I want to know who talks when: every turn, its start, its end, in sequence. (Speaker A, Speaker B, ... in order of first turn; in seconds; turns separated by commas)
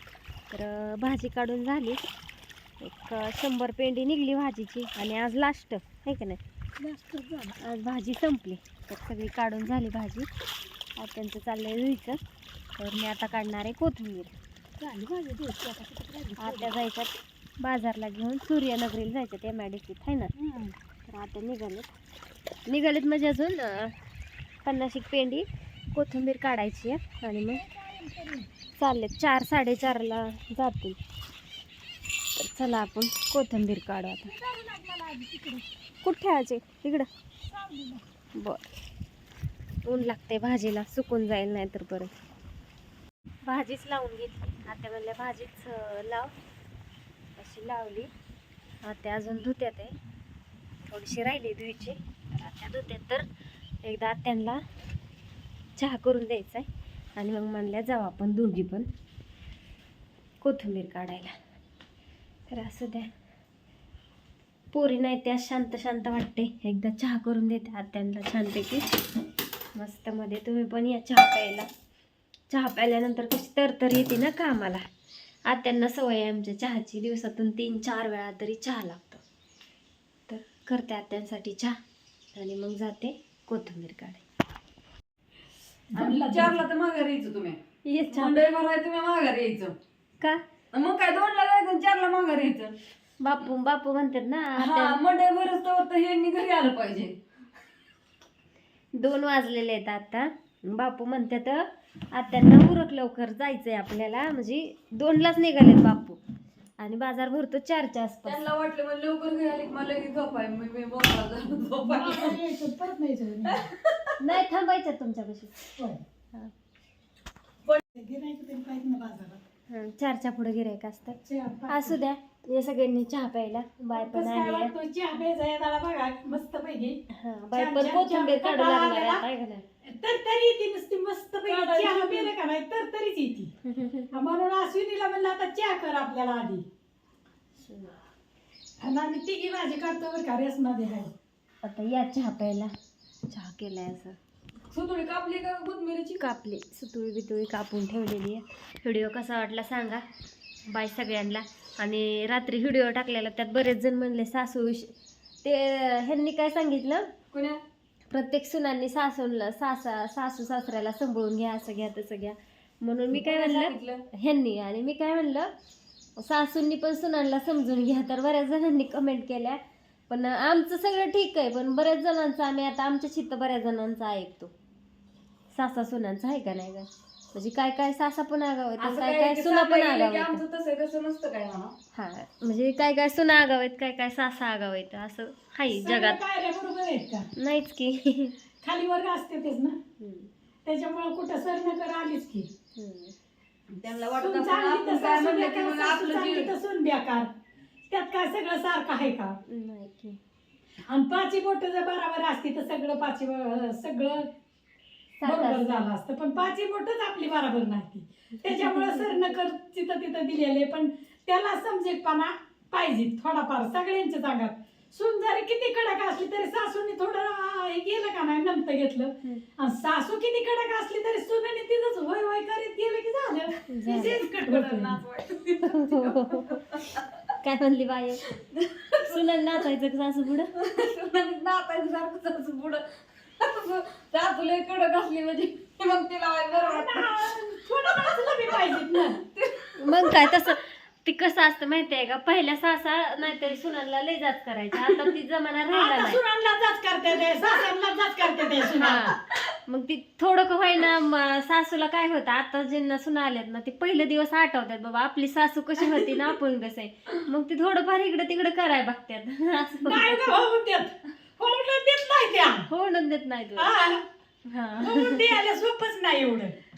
Speaker A: 0.5-2.1, Speaker A: 2.8-6.4, Speaker B: 6.8-7.6, Speaker A: 7.6-10.3, Speaker A: 11.0-12.2, Speaker A: 12.8-14.3, Speaker B: 14.8-16.8, Speaker A: 16.4-20.3, Speaker B: 20.4-20.7, Speaker A: 21.1-21.9, Speaker A: 22.7-23.9, Speaker A: 24.6-27.6, Speaker B: 27.6-28.5, Speaker A: 28.8-31.0, Speaker A: 32.4-34.3, Speaker B: 34.3-35.7, Speaker A: 36.0-37.1, Speaker B: 37.5-38.0, Speaker A: 38.4-38.7, Speaker A: 39.9-42.1, Speaker A: 43.5-46.3, Speaker A: 47.4-48.1, Speaker A: 48.8-50.0, Speaker A: 50.9-53.3, Speaker A: 53.8-54.6, Speaker A: 55.8-58.9, Speaker A: 60.4-61.4, Speaker A: 62.5-63.1, Speaker A: 64.7-68.9, Speaker A: 69.8-71.7, Speaker A: 72.5-74.8, Speaker A: 75.5-79.2, Speaker A: 80.3-81.8, Speaker A: 82.3-84.2, Speaker B: 85.9-86.6, Speaker C: 86.0-87.6, Speaker A: 87.8-88.5, Speaker C: 88.1-89.7, Speaker C: 90.7-92.8, Speaker A: 93.2-95.0, Speaker C: 94.6-97.2, Speaker A: 99.0-106.2, Speaker A: 106.8-108.4, Speaker C: 108.3-112.4, Speaker B: 111.8-113.7, Speaker C: 113.5-114.4, Speaker A: 114.2-115.7, Speaker B: 117.7-119.4, Speaker A: 119.7-121.2, Speaker B: 121.2-122.0, Speaker A: 121.7-124.7, Speaker B: 123.9-127.0, Speaker A: 127.1-129.7, Speaker B: 127.5-129.2, Speaker B: 129.8-133.5, Speaker A: 131.5-132.3, Speaker A: 133.7-134.2, Speaker B: 134.1-136.7, Speaker A: 137.6-137.9, Speaker B: 138.8-141.1, Speaker A: 141.6-142.7, Speaker A: 143.3-144.2, Speaker C: 144.7-146.6, Speaker A: 146.5-150.0, Speaker A: 150.7-157.1, Speaker C: 157.3-157.6, Speaker A: 158.1-165.5, Speaker C: 163.1-164.0, Speaker A: 166.2-174.5, Speaker A: 175.5-180.4, Speaker C: 178.8-181.7, Speaker A: 181.9-186.2, Speaker B: 185.7-187.3, Speaker A: 187.4-188.3, Speaker B: 188.6-189.8, Speaker A: 190.0-190.3, Speaker B: 190.7-192.5, Speaker A: 192.8-193.1, Speaker C: 193.7-196.5, Speaker B: 194.1-197.3, Speaker B: 197.9-199.4, Speaker A: 199.5-200.2, Speaker B: 200.9-204.3, Speaker A: 205.2-205.8, Speaker B: 205.2-225.0, Speaker A: 208.4-209.4, Speaker A: 223.7-224.2, Speaker C: 223.9-227.1, Speaker A: 225.6-226.6, Speaker A: 227.4-228.2, Speaker C: 228.3-229.7, Speaker A: 229.0-230.5, Speaker C: 230.6-232.8, Speaker C: 233.4-240.6, Speaker B: 236.5-239.2, Speaker A: 239.8-246.2, Speaker B: 245.7-249.2, Speaker A: 248.7-260.4, Speaker B: 259.8-262.6, Speaker A: 262.7-263.7, Speaker B: 263.6-264.0, Speaker A: 264.5-265.3, Speaker B: 264.8-266.6